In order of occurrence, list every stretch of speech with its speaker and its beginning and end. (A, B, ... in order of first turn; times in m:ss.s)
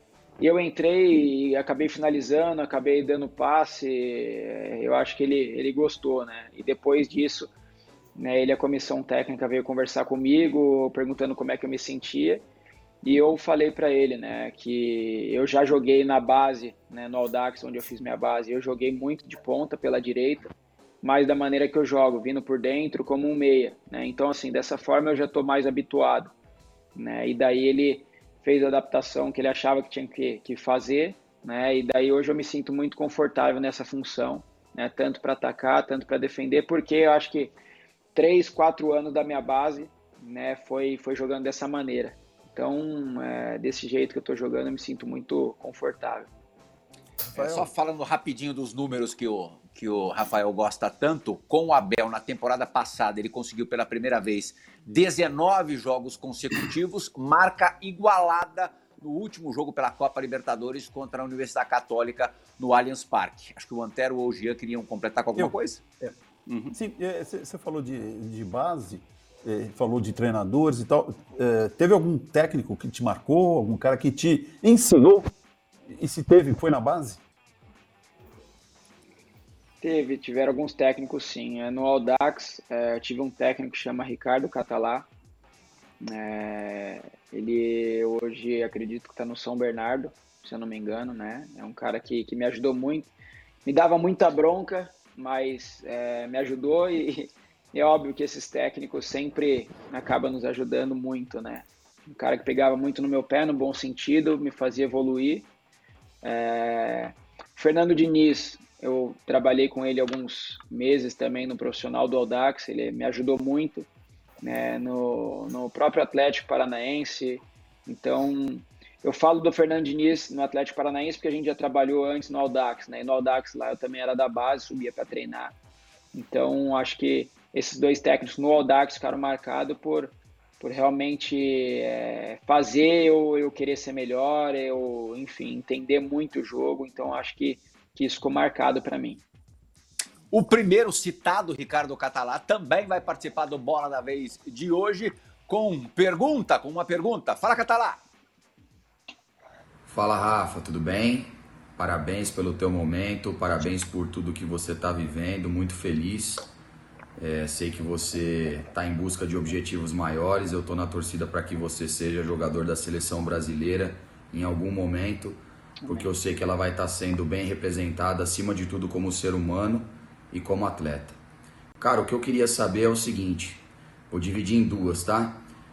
0:00.4-0:07.5 A
0:08.2-0:12.4 A
0:13.0-0:20.5 A
0:21.0-0:26.3 A
0:27.0-0:37.5 A
0:38.1-0:46.3 A
0:47.2-0:47.7 B
0:47.3-1:05.8 C
1:05.4-1:06.2 B
1:06.5-1:06.7 C
1:06.7-1:15.3 B
1:15.9-1:17.2 B
1:19.8-1:25.1 A
1:26.0-1:33.1 A
1:33.6-1:45.5 A
1:46.2-1:53.9 A
1:54.4-2:05.5 A
2:06.1-2:19.2 A
2:20.3-2:28.0 C
2:29.9-2:36.5 D
2:37.2-2:51.2 D
2:51.8-2:55.4 D